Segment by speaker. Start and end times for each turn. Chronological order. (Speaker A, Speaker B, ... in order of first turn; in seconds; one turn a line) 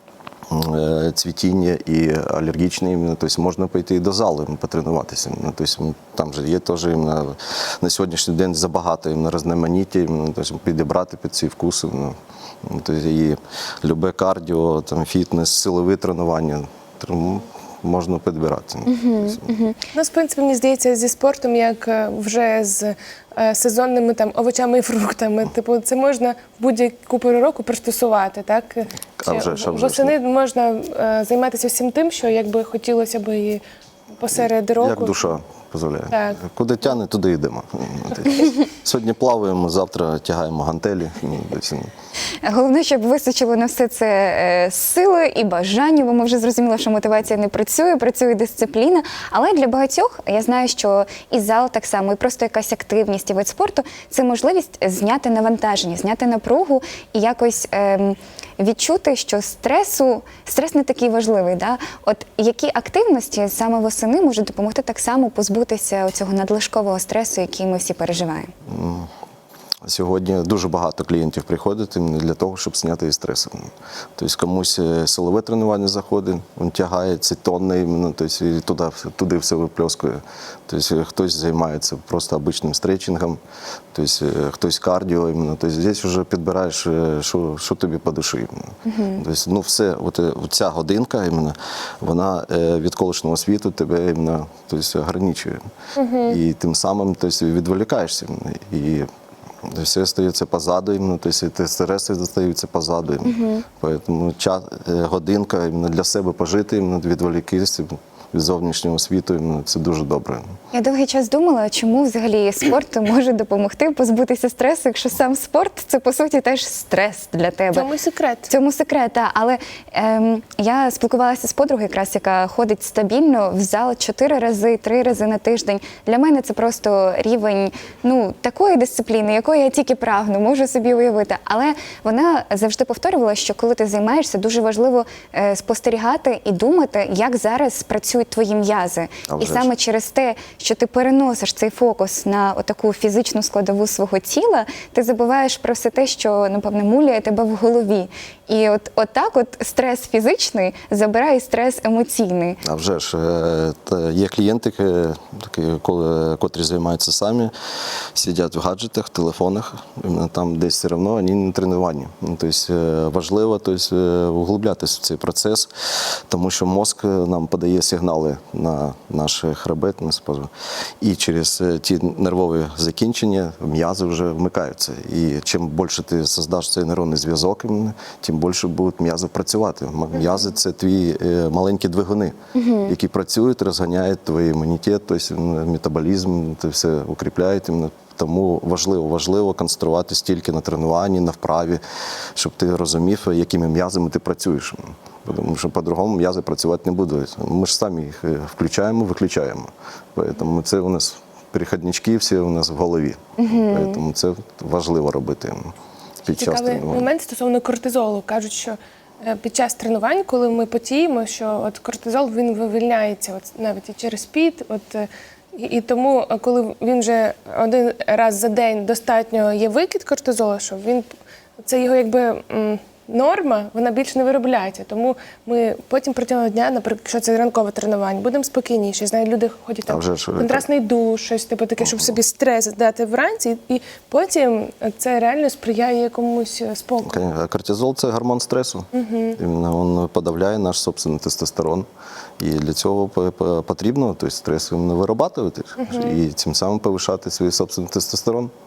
Speaker A: 0.5-19.4
Speaker B: 18.9-19.8
Speaker C: 19.9-33.6
Speaker A: 29.2-30.1
Speaker C: 34.2-35.3
Speaker A: 34.8-41.9
Speaker C: 36.1-36.4
Speaker B: 42.4-68.5
Speaker A: 68.7-69.1
Speaker A: 69.8-83.4
Speaker A: 83.9-95.6
Speaker B: 88.9-89.2
Speaker C: 96.0-96.4
Speaker A: 96.3-99.1
Speaker A: 99.6-110.5
Speaker B: 103.2-103.6
Speaker B: 110.7-117.9
Speaker C: 117.7-118.5
Speaker B: 118.5-152.6
Speaker A: 139.3-139.7
Speaker A: 152.6-157.5
Speaker A: 158.1-165.7
Speaker A: 166.3-191.8
Speaker B: 182.5-182.9
Speaker A: 192.4-205.7
Speaker B: 203.4-204.0
Speaker A: 206.2-207.1
Speaker C: 206.4-221.1
Speaker C: 221.6-237.2
Speaker A: 229.9-230.6
Speaker A: 237.0-241.9
Speaker C: 238.9-239.4
Speaker A: 242.4-248.5
Speaker C: 245.8-246.1